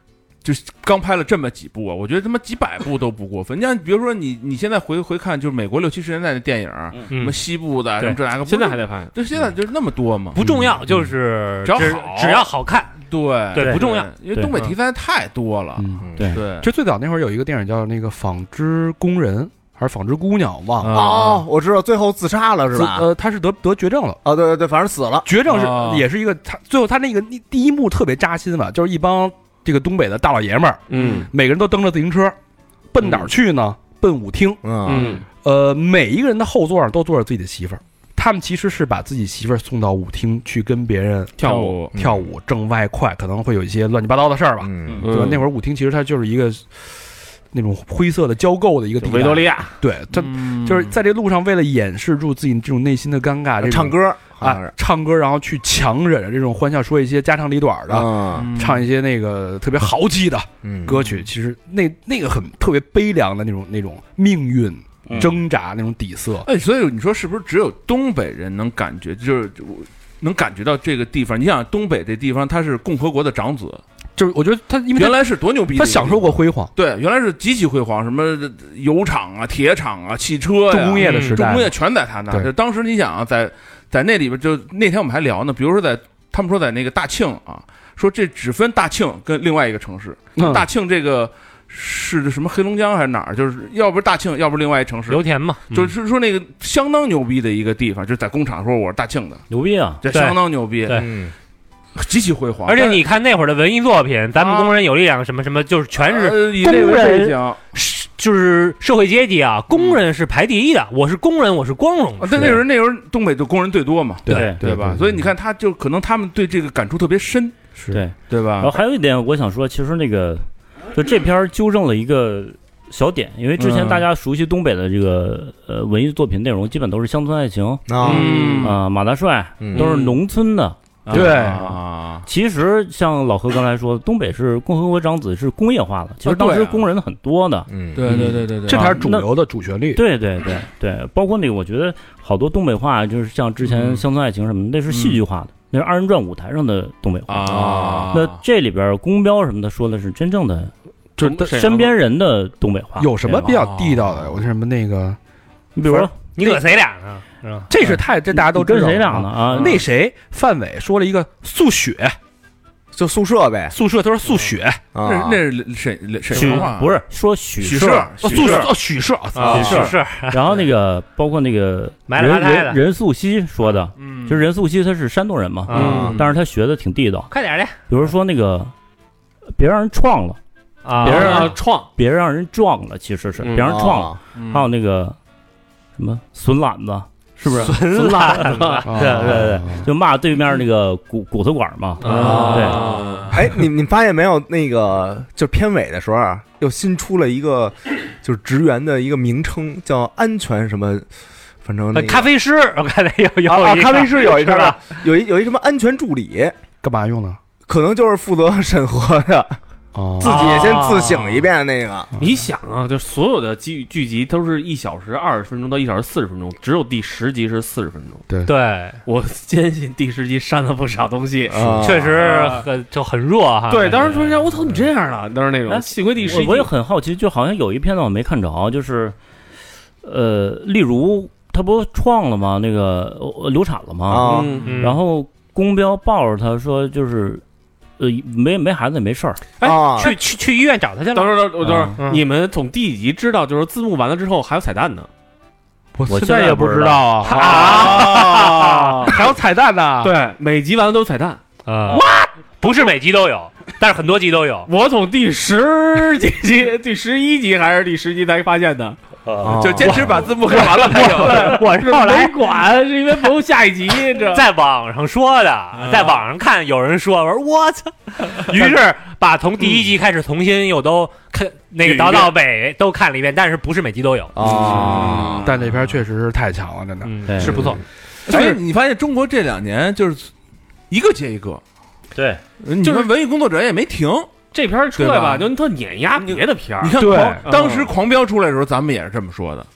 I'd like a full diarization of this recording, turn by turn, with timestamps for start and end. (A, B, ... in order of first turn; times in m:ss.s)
0:00.4-0:10.4 A
0:07.1-0:07.4 B
0:08.4-0:09.2 C
0:10.3-0:12.9 B
0:10.4-0:10.8 D
0:11.6-0:12.5 A
0:13.1-0:16.7 A
0:13.5-0:14.7 B
0:15.8-0:21.1 D
0:20.8-0:21.4 A
0:20.9-0:23.1 E
0:22.7-0:24.2 D
0:24.2-0:25.3 E
0:25.2-0:32.4 D
0:25.4-0:26.0 A
0:30.9-0:31.3 C
0:32.9-1:06.5 D
0:34.6-0:35.2 E
0:34.8-0:35.2 C
0:41.4-0:41.9 C
0:41.4-0:41.9 A
0:41.9-0:42.3 E
0:44.6-0:45.0 E
0:45.0-0:45.4 C
0:49.0-0:49.8 C
0:50.1-0:50.9 A
0:53.6-0:54.7 E
0:57.9-0:58.5 E
0:58.3-0:58.8 A
1:00.6-1:01.1 E
1:05.1-1:05.3 F
1:06.4-1:13.8 A
1:14.2-1:16.7 D
1:14.9-1:39.4 A
1:20.7-1:21.8 D
1:21.0-1:21.4 B
1:30.4-1:30.7 D
1:35.1-1:35.9 B
1:39.5-1:40.0 F
1:40.0-1:41.0 A
1:40.1-1:41.1 B
1:40.9-1:41.3 E
1:42.0-1:43.0 A
1:42.6-1:52.6 B
1:44.4-1:44.8 A
1:46.0-1:47.6 A
1:49.7-1:50.0 A
1:52.2-1:57.6 A
1:54.2-1:55.3 D
1:54.3-1:54.6 F
1:57.8-1:58.0 D
1:57.9-2:08.0 F
1:58.2-1:58.8 A
2:03.6-2:04.1 A
2:07.9-2:08.7 E
2:08.0-2:08.8 A
2:08.0-2:08.7 C
2:08.6-2:11.4 F
2:09.6-2:09.9 E
2:09.8-2:10.2 C
2:11.0-2:12.2 A
2:11.1-2:11.8 D
2:12.2-2:19.3 F
2:16.2-2:16.8 A
2:17.7-2:18.3 E
2:18.0-2:19.0 A
2:18.1-2:20.0 D
2:19.9-2:30.7 F
2:23.6-2:24.0 A
2:24.9-2:25.2 A
2:27.3-2:28.4 A
2:27.6-2:28.1 C
2:31.2-2:31.6 D
2:31.2-2:32.0 C
2:31.5-2:33.5 F
2:33.0-2:35.2 D
2:33.2-2:34.3 A
2:35.7-2:36.1 F
2:35.8-2:36.6 D
2:36.2-2:37.7 B
2:37.7-2:42.2 D
2:37.9-2:39.8 F
2:42.9-2:43.7 E
2:43.7-2:44.8 D
2:44.2-2:44.5 B
2:44.9-2:45.4 E
2:45.0-2:47.0 A
2:46.3-2:48.1 F
2:46.3-2:46.6 B
2:47.6-2:48.7 A
2:47.8-2:49.9 D
2:48.3-2:48.6 B
2:49.3-2:50.6 B
2:49.5-2:57.3 F
2:49.6-2:49.9 A
2:52.1-2:52.8 B
2:54.0-2:54.4 A
2:55.7-2:56.2 B
2:55.7-2:56.2 C
2:55.8-2:56.2 E
2:57.3-2:57.8 B
2:57.9-2:58.7 F
2:59.6-3:00.4 F
3:00.8-3:01.6 B
3:01.0-3:01.9 C
3:01.0-3:05.2 F
3:03.4-3:03.8 C
3:03.6-3:04.2 E
3:04.4-3:04.7 A
3:06.0-3:12.8 F
3:07.5-3:09.0 B
3:08.0-3:08.8 C
3:08.8-3:09.9 D
3:12.0-3:13.3 C
3:12.0-3:12.8 B
3:12.4-3:13.3 A
3:13.3-3:21.0 E
3:21.6-3:22.3 E
3:21.9-3:24.8 B
3:23.4-3:26.5 E
3:26.8-3:27.4 D
3:27.7-3:29.6 E
3:29.9-3:30.6 D
3:30.2-3:32.1 E
3:30.2-3:31.5 B
3:32.2-3:38.2 C
3:38.4-3:39.0 B
3:39.0-3:42.6 C
3:41.5-3:42.2 E
3:41.8-3:44.4 B
3:43.7-3:46.7 C
3:46.2-3:49.2 F
3:50.0-3:57.4 F
3:54.1-3:54.5 E
3:54.2-3:54.9 C
3:54.5-3:55.0 B
3:58.0-3:59.4 F
3:59.6-4:00.1 C
3:59.6-4:00.1 E
3:59.9-4:02.2 B
4:01.1-4:05.1 C
4:01.6-4:02.0 F
4:05.9-4:10.1 D
4:06.1-4:07.1 F
4:07.2-4:08.9 B
4:07.3-4:09.2 C
4:10.0-4:12.0 C
4:11.6-4:14.7 B
4:14.7-4:19.0 C
4:19.2-4:19.6 F
4:19.4-4:20.2 E
4:19.5-4:21.6 A
4:19.8-4:22.6 B
4:20.4-4:24.4 C
4:24.2-4:34.4 B
4:25.8-4:26.2 A
4:31.8-4:32.3 A
4:34.4-4:35.5 E
4:34.4-4:35.9 A
4:34.8-4:37.8 D
4:37.0-4:37.8 B
4:37.3-4:37.6 F
4:38.2-4:40.3 A
4:38.3-4:38.6 D
4:40.9-4:41.6 A
4:42.1-4:42.4 F
4:42.6-4:44.4 A
4:42.8-4:43.1 C
4:44.5-4:47.9 C
4:45.0-4:45.5 A
4:46.2-4:49.7 A
4:47.0-4:47.5 D